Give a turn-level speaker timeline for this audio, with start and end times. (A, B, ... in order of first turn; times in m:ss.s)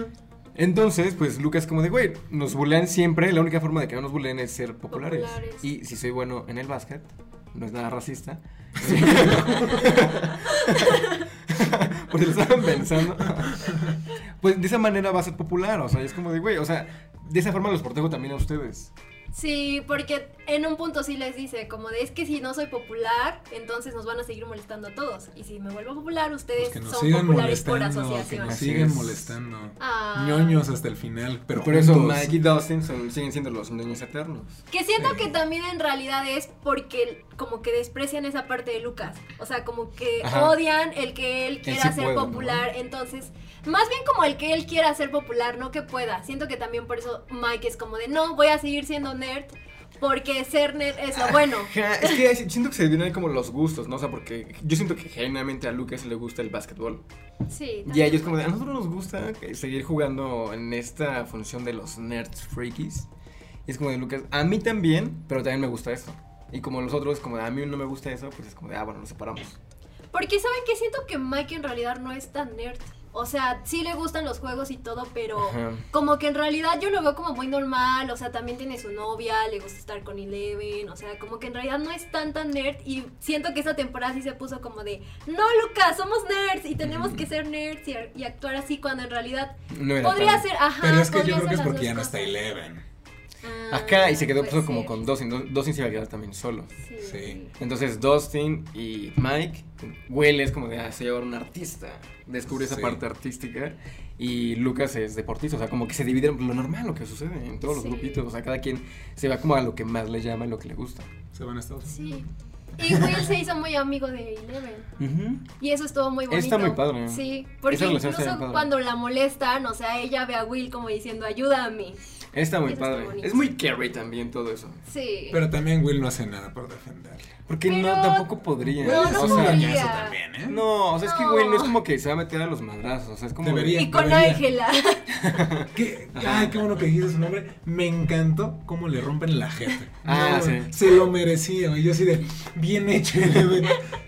0:00.6-0:18.9 A
0:04.9-0:05.6 B
0:08.8-0:10.0 C
0:10.5-0:11.2 B
0:13.7-0:13.9 C
0:19.3-0:28.6 B
0:26.6-0:32.4 C
0:28.3-0:29.3 A
0:29.8-0:30.6 B
0:31.5-0:34.6 A
0:34.7-0:52.2 B
0:35.0-0:35.3 C
0:40.2-0:40.6 A
0:41.6-0:42.7 A
0:51.1-0:57.0 A
0:57.5-0:58.4 B
0:57.8-1:03.1 A
1:03.7-1:09.6 A
1:10.1-1:32.3 B
1:15.4-1:15.9 A
1:29.7-1:30.5 A
1:30.8-1:32.8 C
1:33.4-1:35.0 B
1:33.7-1:36.7 A
1:36.8-1:37.5 B
1:37.0-1:37.4 C
1:37.6-1:51.1 A
1:42.5-1:43.0 C
1:47.7-1:48.2 B
1:51.3-1:52.2 C
1:51.9-1:54.9 B
1:52.8-1:53.3 C
1:55.0-1:55.5 A
1:55.6-2:02.0 B
1:56.3-1:58.7 A
2:02.3-2:04.8 A
2:02.7-2:03.5 B
2:04.9-2:05.4 B
2:05.3-2:07.3 C
2:07.5-2:09.7 A
2:07.7-2:08.3 B
2:08.8-2:10.6 C
2:08.8-2:10.2 B
2:10.5-2:13.9 A
2:11.0-2:11.8 B
2:13.4-2:14.4 C
2:13.8-2:15.1 B
2:15.1-2:16.7 A
2:15.7-2:23.8 C
2:20.0-2:20.8 A